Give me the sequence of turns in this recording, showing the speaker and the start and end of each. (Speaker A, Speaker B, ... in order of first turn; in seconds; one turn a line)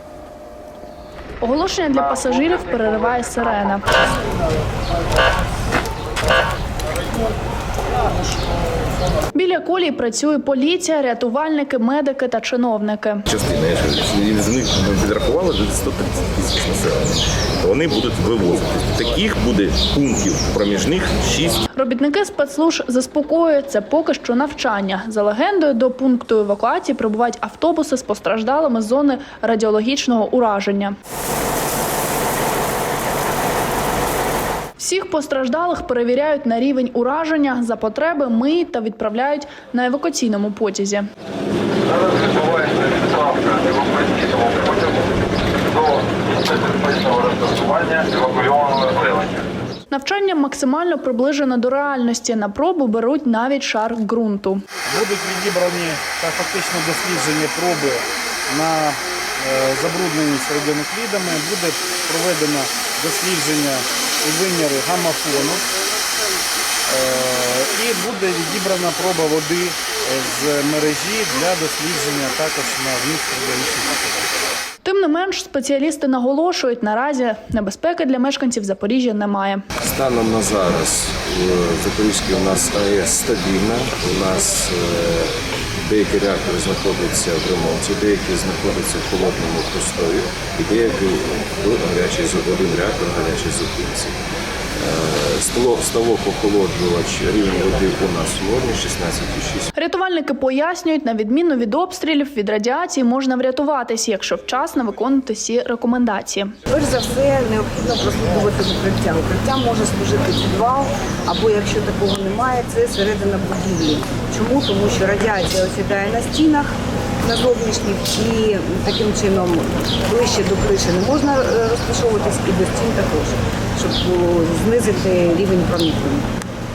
Speaker A: 1.4-4.0
Speaker A: 9.3-13.2
Speaker B: 13.3-21.6
Speaker A: 21.7-30.9
Speaker A: 34.8-41.1
Speaker C: 41.9-49.5
Speaker A: 49.9-54.6
Speaker D: 54.8-65.7
Speaker D: 66.9-74.3
Speaker A: 74.8-79.7
Speaker E: 79.8-94.2
Speaker E: 94.8-99.7
Speaker A: 99.8-106.5
Speaker F: 106.7-126.3